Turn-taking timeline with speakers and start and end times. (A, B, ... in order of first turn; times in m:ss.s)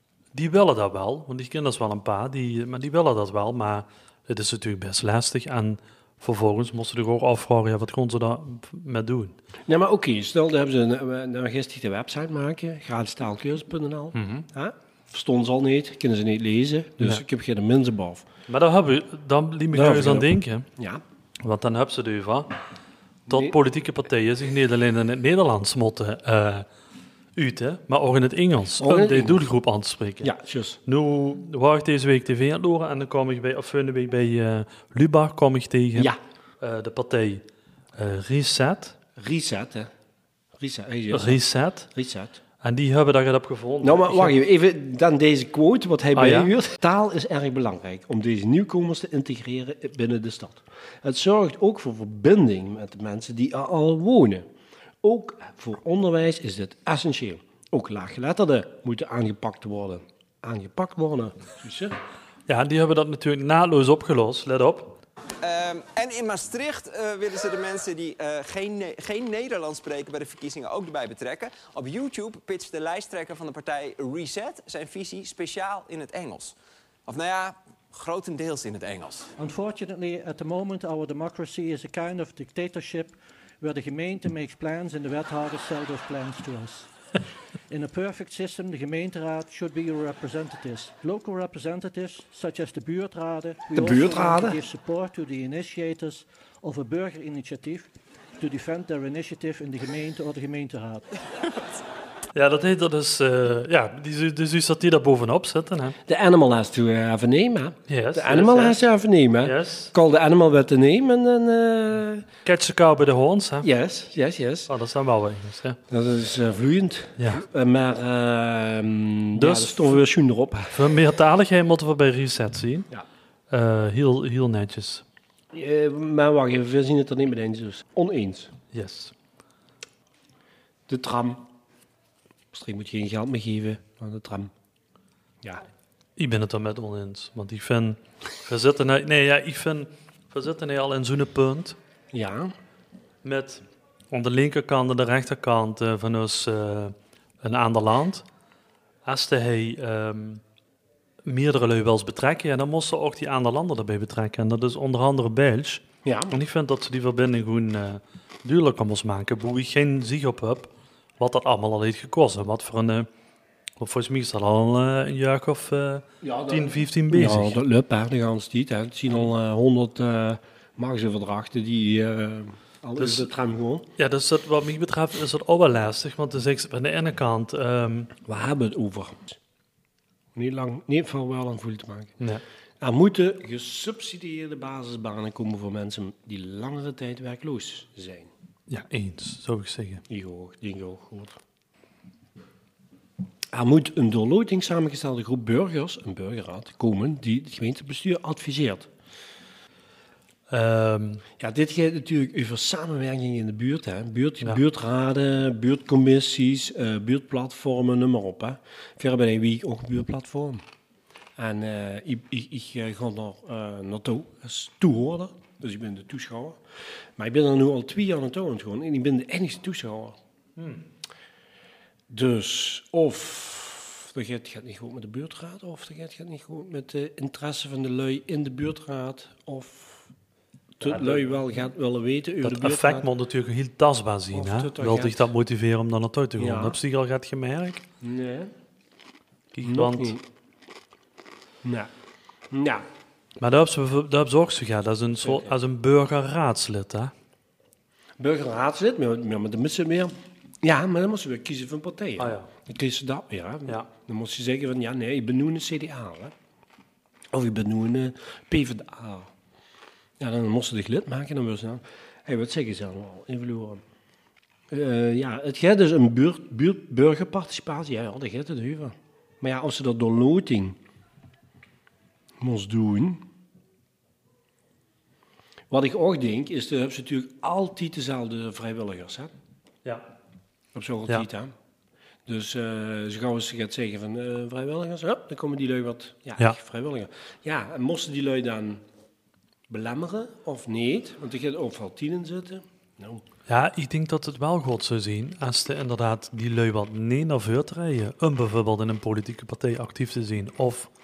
0:00.3-0:09.4 A
0:09.6-0:18.3 B
0:14.1-0:14.5 A
0:18.5-0:20.7 A
0:19.7-0:21.0 B
0:21.4-0:22.6 A
0:23.3-0:23.6 B
0:23.3-0:26.7 A
0:27.4-0:30.3 A
0:28.8-0:29.5 B
0:30.2-0:30.8 B
0:30.8-0:37.4 A
0:37.9-0:39.0 A
0:39.2-0:39.9 B
0:40.6-0:42.4 B
0:41.1-0:41.9 A
0:42.6-0:44.4 A
0:43.8-0:54.4 B
0:46.1-0:46.5 A
0:55.0-1:02.0 B
1:02.5-1:05.0 A
1:05.4-1:16.5 C
1:17.1-1:19.3 C
1:19.4-1:26.9 D
1:27.7-1:41.2 D
1:33.7-1:34.6 B
1:42.3-1:46.0 A
1:46.0-1:52.3 B
1:47.9-1:48.8 A
1:49.4-1:49.9 A
1:52.4-1:53.7 A
1:53.6-1:54.7 B
1:54.7-1:55.8 A
1:55.9-2:00.9 B
1:57.2-1:57.4 A
1:59.4-2:00.0 A
2:00.7-2:02.9 A
2:03.5-2:05.0 A
2:05.5-2:08.5 B
2:08.7-2:09.1 A
2:10.9-2:11.5 B
2:12.5-2:14.5 B
2:16.2-2:21.8 A
2:22.1-2:22.5 B
2:23.2-2:28.2 A
2:29.0-2:30.4 A
2:31.2-2:43.1 A
2:36.0-2:36.4 B
2:43.8-2:47.6 A
2:46.2-2:53.9 B
2:53.0-2:53.3 A
2:54.0-2:58.1 A
2:58.2-2:59.4 B
3:00.3-3:02.2 B
3:02.8-3:08.3 B
3:08.7-3:10.0 A
3:10.1-3:11.4 B
3:13.5-3:18.9 B
3:20.5-3:21.2 A
3:21.4-3:30.6 B
3:31.4-3:36.6 B
3:37.2-3:40.2 B
3:40.6-3:40.8 A
3:42.1-3:50.1 B
3:50.8-3:53.1 B
3:50.8-3:51.3 A
3:52.4-3:57.8 A
3:54.3-3:55.3 B
3:56.4-3:56.8 B
3:58.0-3:58.5 B
3:59.5-4:00.2 A
3:59.6-4:00.2 B
4:01.6-4:01.9 B
4:02.5-4:02.8 B
4:03.4-4:07.1 A
4:05.2-4:05.5 B
4:08.2-4:16.3 B
4:12.2-4:12.5 A
4:17.3-4:19.3 B
4:20.2-4:23.8 B
4:24.7-4:30.8 B
4:32.4-4:33.2 B
4:35.7-4:39.3 B
4:40.7-4:41.5 B
4:42.2-4:48.8 B
4:49.7-4:53.2 B
4:53.5-5:00.9 A